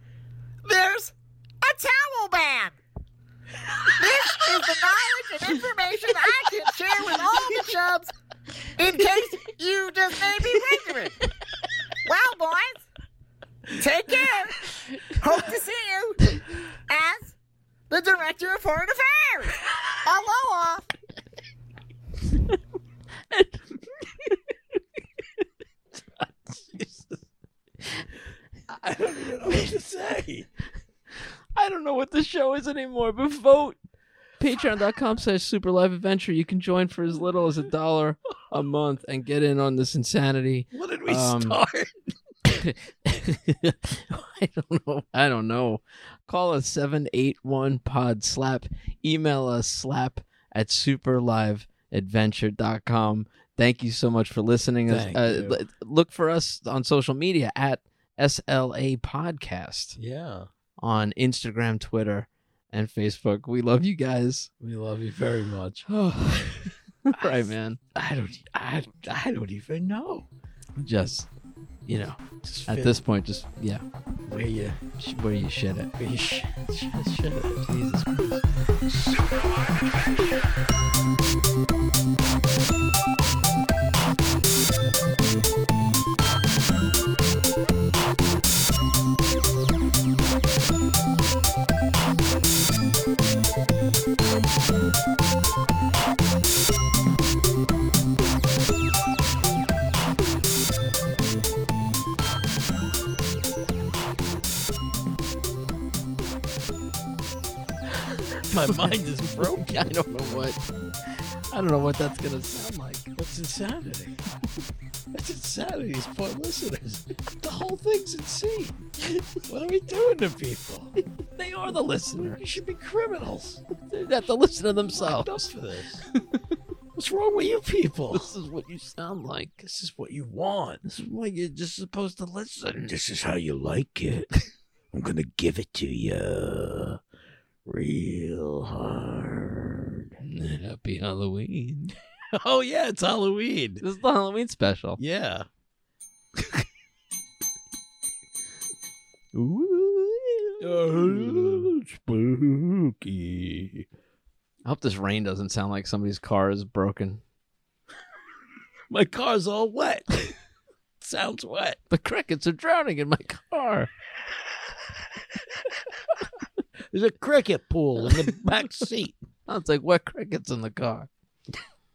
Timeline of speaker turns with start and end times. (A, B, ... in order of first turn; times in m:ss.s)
0:00.6-0:02.8 A
0:03.9-0:08.1 A
0:08.8-0:11.2 A
0:12.0-0:12.8 A
0:13.7-0:17.3 A
0:17.9-0:20.8 A
0:26.2-0:27.2 B
0:28.7-0:30.5 B
0:31.5-0:33.8 C
0:34.4-0:41.6 C
0:40.7-0:42.1 B
0:42.5-1:00.0 C
0:54.9-0:55.6 B
1:00.0-1:00.5 B
1:00.8-1:04.5 C
1:04.6-1:05.9 B
1:05.9-1:07.8 C
1:07.9-1:10.3 B
1:10.8-1:11.3 C
1:11.9-1:13.8 C
1:12.4-1:13.0 B
1:14.2-1:14.8 B
1:15.0-1:15.9 C
1:16.0-1:17.7 B
1:17.6-1:18.4 C
1:18.8-1:19.3 B
1:48.5-1:50.0 B
1:48.6-1:53.1 C
1:53.2-1:54.2 B
1:55.1-1:58.8 B
1:59.4-2:00.9 B
2:01.3-2:02.4 C
2:01.7-2:03.6 B
2:03.8-2:05.5 C
2:04.9-2:06.0 B
2:06.9-2:08.3 B
2:08.1-2:09.6 C
2:09.6-2:10.8 B
2:10.8-2:12.9 C
2:12.8-2:14.3 B
2:14.9-2:17.0 B
2:17.6-2:20.1 B
2:20.2-2:21.9 C
2:22.3-2:23.8 B
2:23.8-2:25.0 C
2:25.0-2:25.5 B
2:29.3-2:31.7 C
2:30.6-2:33.9 B
2:34.6-2:37.2 C
2:38.9-2:40.4 B
2:41.0-2:41.8 B
2:41.9-2:43.9 C
2:46.9-2:49.2 B
2:49.5-2:51.1 C